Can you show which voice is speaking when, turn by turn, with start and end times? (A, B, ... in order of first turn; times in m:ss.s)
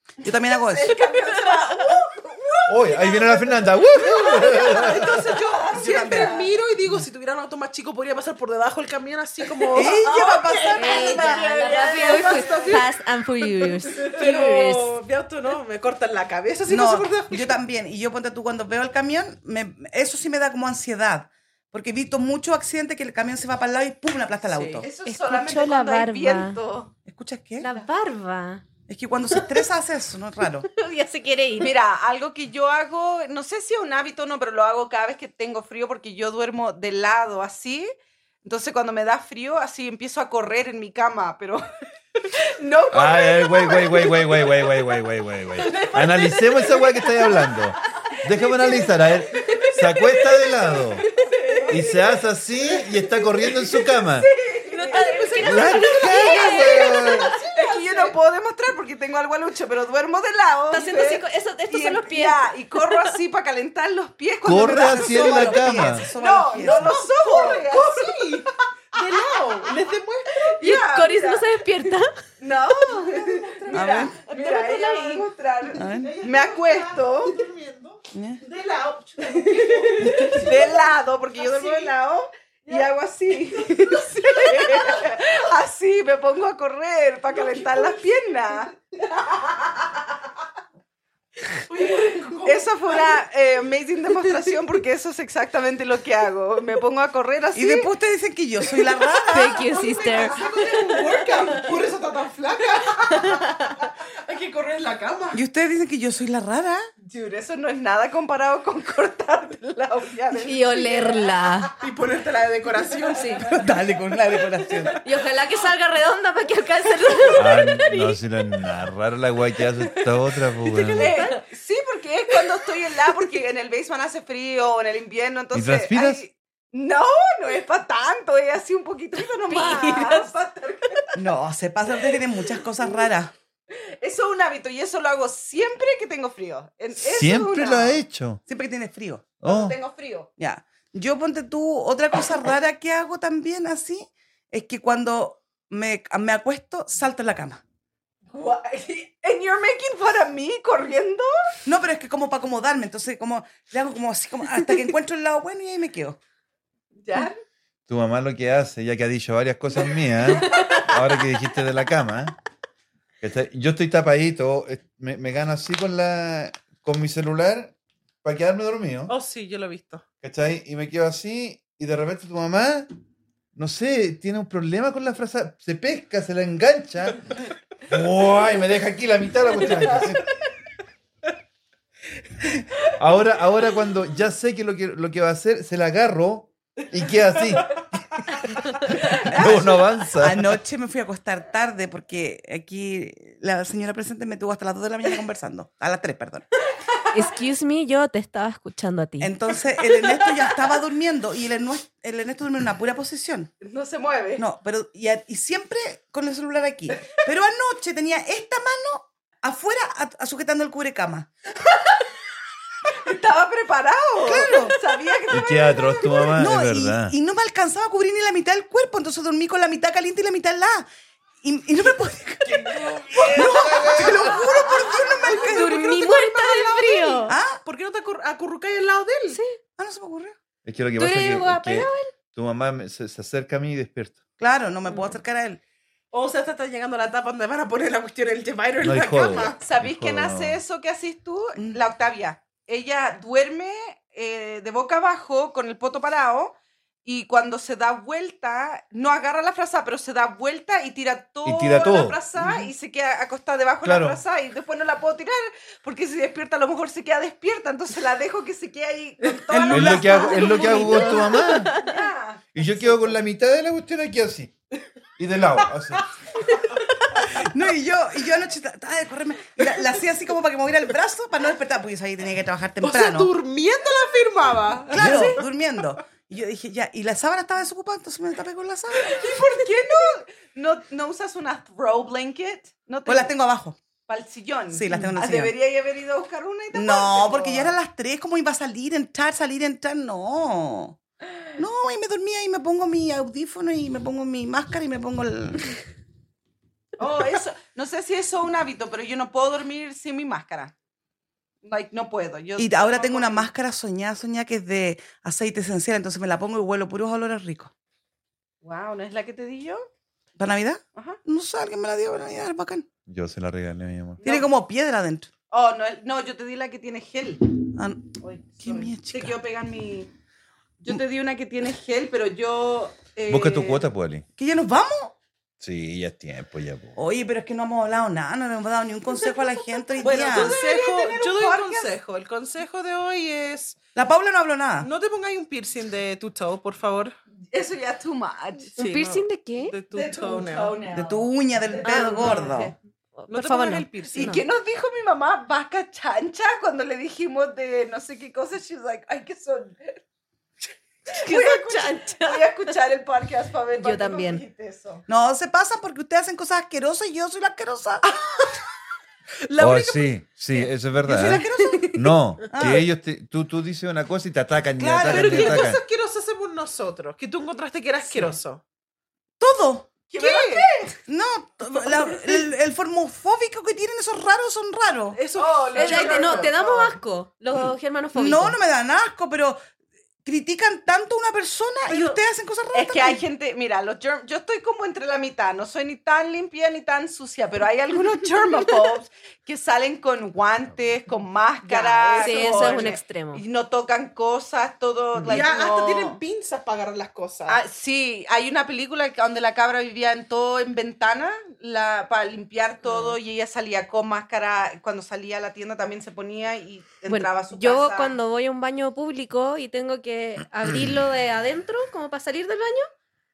0:00.2-0:00.9 A
0:00.2-0:06.5 B
0:02.7-0:05.1 C
0:04.1-0:10.1 D
0:05.7-0:06.3 A
0:09.6-0:12.8 B
0:09.7-0:11.4 A
0:10.8-0:14.9 E
0:10.8-0:12.8 D
0:14.0-0:17.6 D
0:16.7-0:24.9 A
0:24.5-0:24.8 D
0:24.8-0:26.9 B
0:25.0-0:26.6 E
0:27.0-0:27.7 A
0:27.6-0:28.6 E
0:28.9-0:30.7 A
0:30.7-0:31.7 E
0:31.6-0:37.9 B
0:38.4-0:41.6 B
0:42.3-0:44.7 B
0:42.9-0:51.0 C
0:45.6-0:52.1 B
0:51.7-0:54.3 C
0:54.0-0:55.6 B
0:54.7-0:57.1 E
0:54.9-0:58.2 D
0:55.4-0:57.3 C
0:56.4-1:08.4 B
1:00.7-1:03.1 E
1:04.4-1:06.0 C
1:04.5-1:06.9 A
1:06.5-1:10.5 D
1:09.0-1:09.7 B
1:10.4-1:17.4 B
1:10.6-1:12.1 E
1:12.9-1:15.3 D
1:13.7-1:14.1 A
1:15.7-1:16.1 A
1:15.8-1:21.9 D
1:18.1-1:18.4 A
1:19.2-1:28.7 B
1:23.4-1:25.2 D
1:27.3-1:28.0 D
1:31.7-1:33.2 D
1:32.4-1:37.9 B
1:37.5-1:39.6 A
1:39.3-1:40.4 E
1:39.5-1:45.4 D
1:40.2-1:41.5 B
1:43.2-1:43.7 E
1:45.3-1:46.9 A
1:47.0-1:51.3 B
1:50.4-1:51.7 E
1:51.8-1:53.6 D
1:53.2-1:53.5 E
1:53.5-1:55.0 A
1:55.0-1:58.2 E
1:57.3-2:01.2 C
2:00.7-2:01.0 D
2:00.9-2:11.1 B
2:05.5-2:06.2 C
2:09.5-2:10.3 E
2:11.2-2:13.3 A
2:13.7-2:18.0 B
2:17.0-2:18.4 C
2:18.5-2:19.3 A
2:19.4-2:19.8 C
2:19.4-2:20.3 B
2:20.4-2:27.6 A
2:28.3-2:31.3 B
2:31.6-2:36.2 A
2:37.0-2:37.4 B
2:37.9-2:42.3 C
2:40.5-2:40.8 B
2:43.2-2:49.1 C
2:49.1-2:50.0 D
2:50.2-2:52.9 C
2:53.5-3:00.3 C
3:03.0-3:10.6 C
3:09.1-3:16.4 A
3:17.1-3:19.3 E
3:19.2-3:23.5 A
3:23.6-3:24.4 B
3:24.4-3:31.3 A
3:32.9-3:36.4 B
3:34.2-3:34.8 A
3:35.3-3:37.1 C
3:36.3-3:40.9 A
3:41.4-3:45.8 A
3:43.0-3:45.0 B
3:43.2-3:49.4 D
3:43.5-3:44.2 C
3:45.3-3:47.3 E
3:47.3-3:47.6 A
3:49.3-3:49.6 E
3:49.8-3:50.4 A
3:50.6-3:54.2 C
3:51.0-3:52.1 E
3:54.4-3:55.6 A
3:56.1-3:59.6 D
3:58.8-4:00.6 C
3:59.3-4:23.2 B
4:11.4-4:12.2 C
4:13.8-4:14.2 C
4:19.5-4:21.2 A
4:19.7-4:21.8 C
4:20.2-4:22.0 E
4:22.5-4:24.6 C
4:25.2-4:26.1 C
4:27.2-4:33.3 A
4:32.8-4:35.4 D
4:34.9-4:39.2 A
4:39.0-4:43.3 B
4:43.0-4:43.8 A
4:44.1-4:47.7 B
4:44.7-4:45.5 A
4:46.7-4:51.0 A
4:51.6-4:55.7 A
4:57.0-5:00.7 B
5:01.6-5:03.5 B
5:02.6-5:07.7 A
5:08.6-5:09.9 B
5:10.4-5:12.9 A
5:13.1-5:14.2 C
5:14.2-5:14.5 B
5:14.2-5:15.3 A
5:15.5-5:17.6 B
5:17.7-5:19.4 A
5:18.2-5:20.1 B
5:20.8-5:23.8 B
5:23.3-5:24.2 C
5:24.4-5:25.1 A
5:25.6-5:26.9 C
5:27.0-5:31.9 A
5:30.0-5:31.8 B
5:30.1-5:33.8 D
5:33.9-5:34.9 A
5:34.8-5:37.1 D
5:37.5-5:38.8 B
5:38.8-5:39.8 E
5:38.8-5:40.8 D
5:39.9-5:42.5 B
5:40.9-5:42.7 A
5:41.8-5:44.4 E
5:43.3-5:44.4 D
5:44.1-5:50.0 B
5:51.1-5:55.0 B
5:51.1-5:52.7 E
5:53.8-5:54.4 E
5:55.1-5:58.0 A
5:58.0-5:58.6 D
5:59.4-6:00.2 D
5:59.6-6:05.8 C
6:01.0-6:01.9 A
6:01.6-6:02.0 E
6:02.5-6:02.8 A
6:04.8-6:05.7 A
6:05.0-6:08.6 D
6:09.4-6:10.0 A
6:10.1-6:11.0 B
6:10.2-6:10.7 D
6:11.0-6:15.2 A
6:15.1-6:16.9 D
6:15.3-6:16.9 B
6:15.8-6:18.6 E
6:18.1-6:19.6 A
6:20.2-6:23.2 A
6:22.7-6:36.2 B
6:31.7-6:33.0 D
6:31.7-6:33.4 E
6:35.2-6:37.6 D
6:37.5-6:48.1 B
6:42.8-6:43.2 E
6:47.1-6:52.9 E